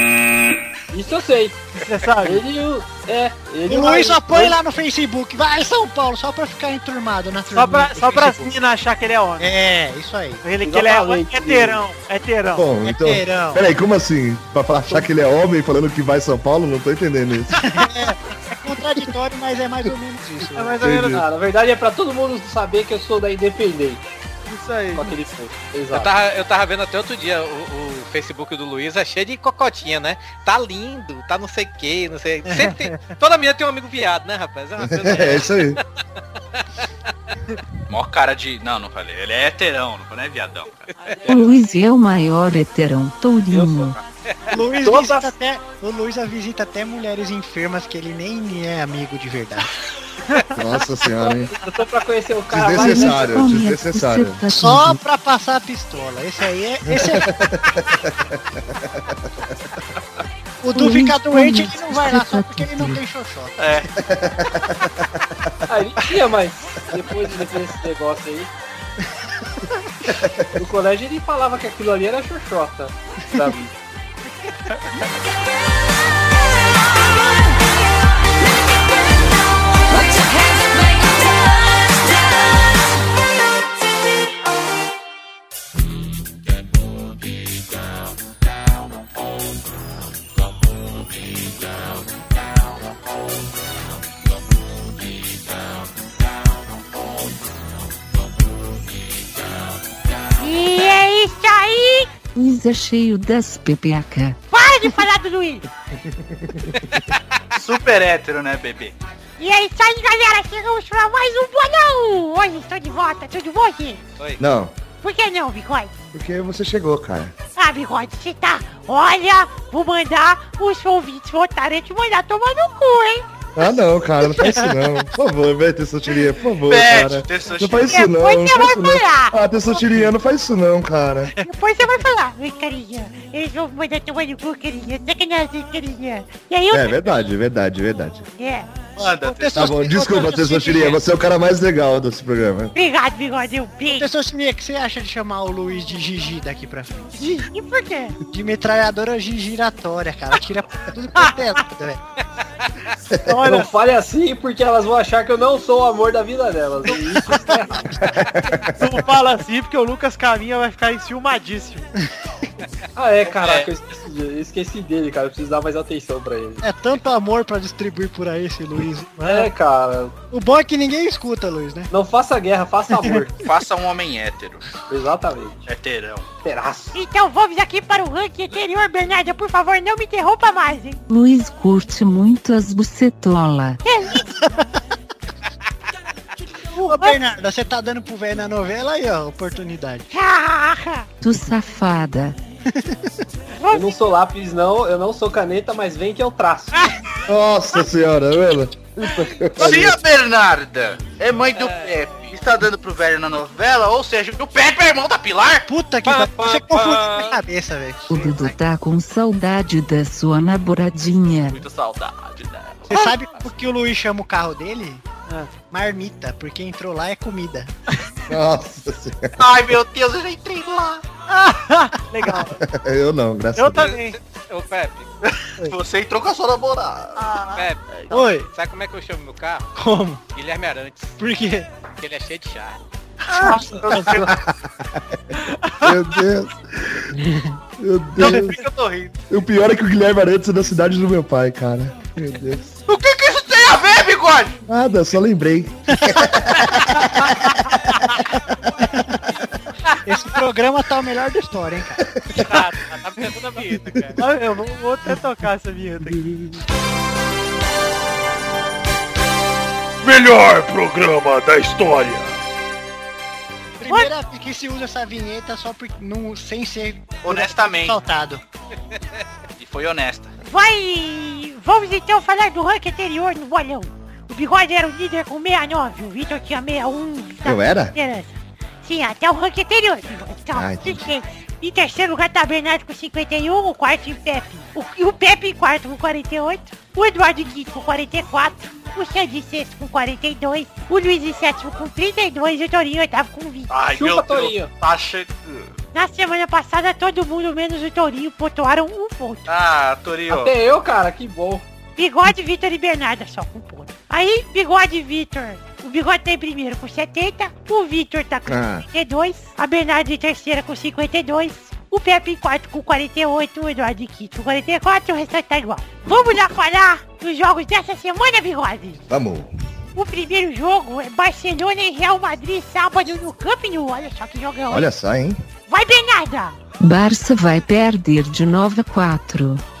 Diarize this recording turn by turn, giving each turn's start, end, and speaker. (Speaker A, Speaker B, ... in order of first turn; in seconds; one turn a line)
Speaker A: 0.9-1.6
Speaker B: 1.8-2.4
Speaker A: 2.2-4.6
Speaker C: 3.7-8.4
Speaker B: 7.5-9.5
Speaker C: 9.4-10.4
Speaker B: 10.4-12.7
Speaker A: 10.6-11.8
Speaker D: 12.6-17.8
Speaker C: 12.8-13.6
Speaker C: 17.6-20.8
Speaker B: 20.6-21.2
Speaker D: 20.8-21.3
Speaker A: 21.1-24.0
Speaker B: 24.5-25.1
Speaker A: 24.9-26.1
Speaker E: 25.9-35.8
Speaker C: 32.5-32.8
Speaker D: 34.9-35.8
Speaker F: 37.9-40.9
Speaker E: 41.0-41.3
Speaker G: 41.3-44.0
Speaker A: 43.5-43.8
Speaker E: 44.3-44.6
Speaker C: 44.5-49.7
Speaker A: 44.8-45.3
Speaker D: 50.5-51.5
Speaker A: 51.3-53.4
Speaker D: 52.5-54.4
Speaker G: 52.7-55.0
Speaker C: 54.5-57.4
Speaker D: 56.9-59.5
Speaker C: 60.6-63.6
Speaker G: 60.7-63.0
Speaker F: 63.6-63.9
Speaker D: 64.0-65.5
Speaker A: 65.7-68.5
Speaker D: 70.1-70.5
Speaker A: 70.5-73.7
Speaker H: 100.4-102.1
Speaker G: 102.3-104.3
Speaker H: 104.5-105.7
Speaker D: 106.0-106.8
Speaker E: 106.9-107.2
Speaker F: 107.5-108.9
Speaker H: 109.4-114.0
Speaker D: 114.4-114.8
Speaker H: 115.0-115.9
Speaker D: 116.1-117.3
Speaker H: 117.5-123.3
Speaker D: 123.5-131.3
Speaker C: 124.3-124.8
Speaker F: 126.7-128.1
Speaker H: 127.9-129.4
Speaker H: 131.4-137.0
Speaker D: 136.7-138.3
Speaker H: 138.4-138.7
Speaker F: 139.0-139.7
Speaker C: 139.2-141.0
Speaker D: 139.5-142.7
Speaker H: 142.7-144.1
Speaker C: 143.9-147.1
Speaker H: 147.1-148.2
Speaker C: 148.2-152.0
Speaker B: 153.2-153.7
Speaker A: 153.4-157.9
Speaker D: 158.1-158.9
Speaker B: 158.8-161.9
Speaker A: 162.9-166.6
Speaker F: 163.3-163.7
Speaker C: 166.6-169.5
Speaker A: 169.2-170.1
Speaker C: 170.3-171.9
Speaker A: 171.9-173.4
Speaker C: 172.9-173.2
Speaker F: 173.4-174.7
Speaker A: 174.9-175.7
Speaker F: 175.7-176.3
Speaker A: 176.4-177.0
Speaker H: 176.9-181.0
Speaker G: 181.1-183.8
Speaker H: 183.8-184.3
Speaker H: 186.8-187.2
Speaker C: 186.8-190.1
Speaker H: 190.1-191.1
Speaker G: 191.2-192.3
Speaker H: 193.6-193.9
Speaker A: 193.7-196.9
Speaker D: 197.3-200.0
Speaker F: 199.6-205.7
Speaker E: 201.5-201.9
Speaker C: 205.7-208.6
Speaker E: 206.0-207.4
Speaker G: 208.1-211.6
Speaker F: 211.5-213.2
Speaker C: 212.9-215.0
Speaker B: 215.3-215.5
Speaker C: 215.7-217.7
Speaker D: 218.3-219.4
Speaker F: 219.4-221.0
Speaker B: 221.3-222.6
Speaker D: 222.6-223.9
Speaker B: 223.6-224.2
Speaker E: 223.8-225.1
Speaker F: 225.2-227.3
Speaker E: 227.5-229.7
Speaker C: 228.1-228.5
Speaker C: 229.8-230.2
Speaker E: 230.3-231.2
Speaker C: 231.2-231.7
Speaker E: 231.9-232.8
Speaker C: 233.3-234.3
Speaker B: 233.4-234.2
Speaker F: 233.6-234.2
Speaker D: 234.3-235.0
Speaker B: 235.4-235.9
Speaker D: 235.8-237.2
Speaker D: 237.8-238.6
Speaker B: 238.2-238.6
Speaker D: 239.3-242.7
Speaker F: 242.9-244.6
Speaker D: 244.7-247.6
Speaker C: 248.8-249.2
Speaker C: 250.0-252.1
Speaker E: 252.3-254.2
Speaker B: 254.2-256.2
Speaker D: 256.1-256.6
Speaker I: 260.0-262.4
Speaker C: 263.8-268.4
Speaker F: 267.2-268.0
Speaker F: 269.6-270.3
Speaker H: 270.4-293.7
Speaker D: 277.4-277.9
Speaker D: 280.5-281.1
Speaker F: 293.7-295.7
Speaker A: 293.9-294.7
Speaker H: 295.9-299.5
Speaker F: 299.5-300.5
Speaker A: 300.3-301.6
Speaker H: 301.9-319.0
Speaker D: 308.5-308.9
Speaker D: 319.1-319.5
Speaker H: 319.9-324.9
Speaker D: 324.7-325.4
Speaker H: 325.7-326.6
Speaker G: 326.8-329.6